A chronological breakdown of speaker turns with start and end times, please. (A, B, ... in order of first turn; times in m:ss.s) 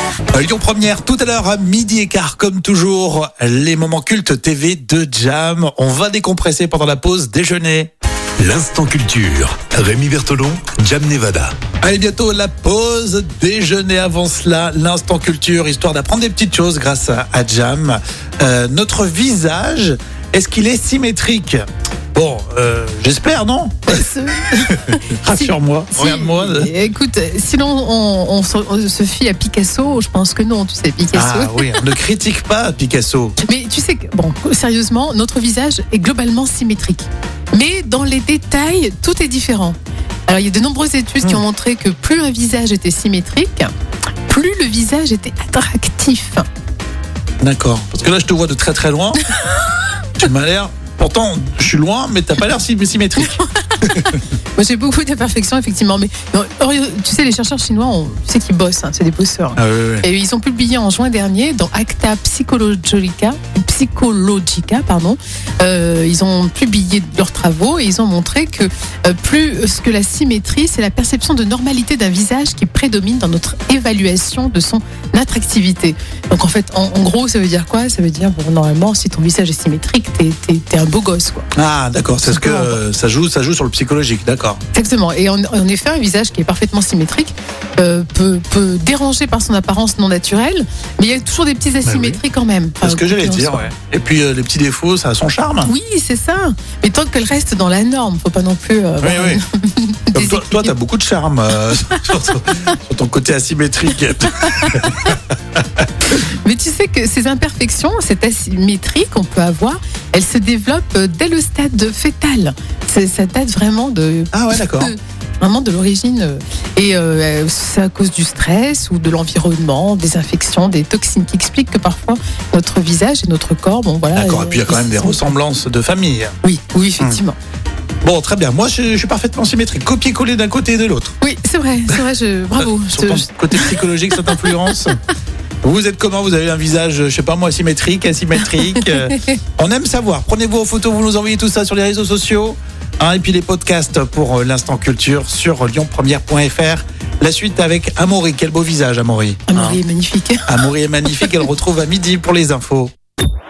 0:00.3-0:07.9 A
0:08.4-0:11.6 B
0:11.8-0:21.6 A
0:22.1-0:26.7 A
0:23.9-0:31.8 C
0:31.1-0:33.4 A
0:33.4-0:39.8 C
0:40.3-0:43.7 C
0:44.3-0:46.4 C
0:47.4-0:49.2 A
0:50.2-0:53.3 A
0:53.2-1:21.5 C
0:59.6-1:00.0 A
1:21.5-1:24.6 A
1:22.2-1:22.8 C
1:24.7-1:33.7 C
1:31.8-1:32.2 A
1:32.8-1:35.7 A
1:35.7-1:40.7 C
1:39.0-1:39.4 A
1:40.1-1:45.2 A
1:44.4-1:45.1 C
1:46.4-2:05.3 C
1:54.3-1:54.9 A
2:04.1-2:06.4 A
2:06.4-2:07.4 C
2:08.0-2:11.1 A
2:11.2-2:14.9 C
2:12.6-2:15.0 A
2:15.6-2:29.8 A
2:18.6-2:19.1 C
2:29.5-2:30.4 C
2:30.5-2:32.9 A